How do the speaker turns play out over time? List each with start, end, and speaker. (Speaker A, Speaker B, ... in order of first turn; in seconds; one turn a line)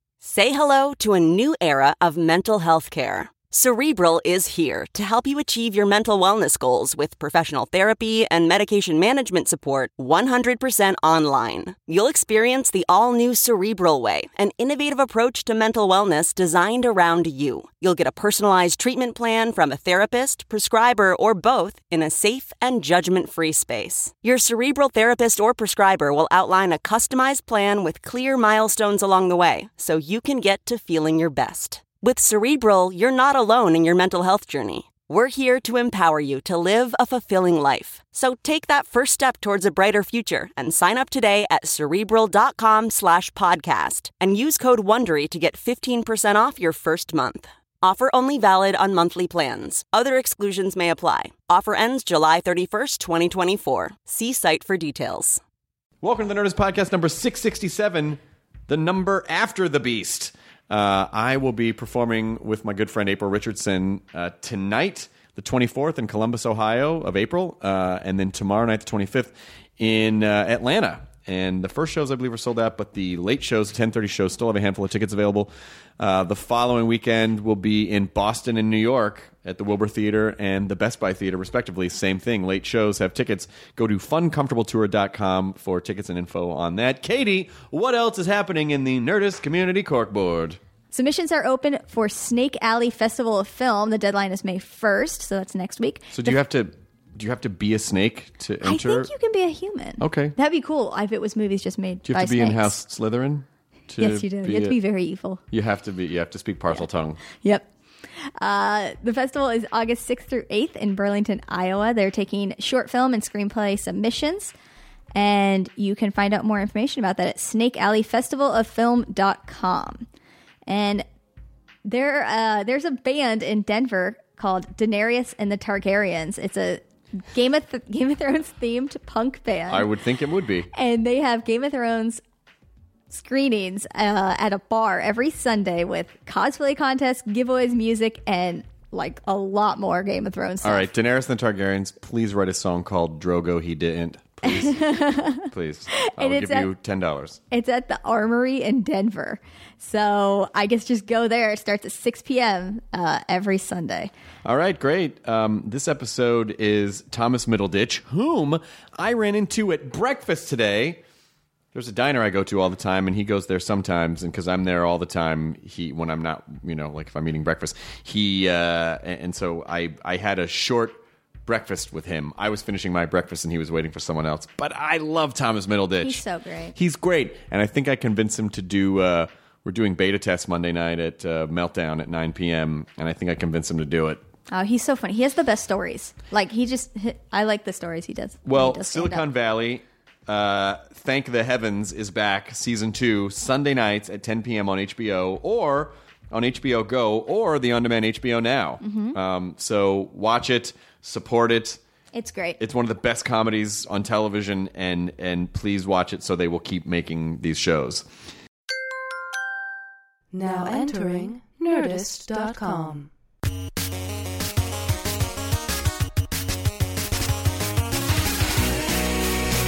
Speaker A: 0.2-55.4
Speaker B: 56.0-90.6
Speaker C: 90.9-96.4
Speaker B: 96.1-99.1
Speaker C: 98.6-102.7
Speaker B: 100.0-100.4
Speaker B: 102.0-104.8
Speaker C: 104.0-105.4
Speaker B: 105.5-107.2
Speaker C: 107.3-107.7
Speaker C: 108.4-114.5
Speaker C: 115.2-120.1
Speaker C: 120.7-121.0
Speaker C: 121.9-129.9
Speaker B: 129.7-130.7
Speaker C: 130.7-132.2
Speaker C: 133.1-140.9
Speaker B: 140.6-147.4
Speaker C: 144.4-146.7
Speaker C: 147.5-154.1
Speaker B: 154.4-161.0
Speaker B: 161.7-176.2
Speaker C: 176.0-176.8
Speaker B: 176.8-184.2
Speaker C: 184.5-189.2
Speaker B: 188.4-201.8
Speaker C: 198.8-199.2
Speaker C: 202.1-202.6
Speaker B: 202.6-208.1
Speaker D: 210.3-213.1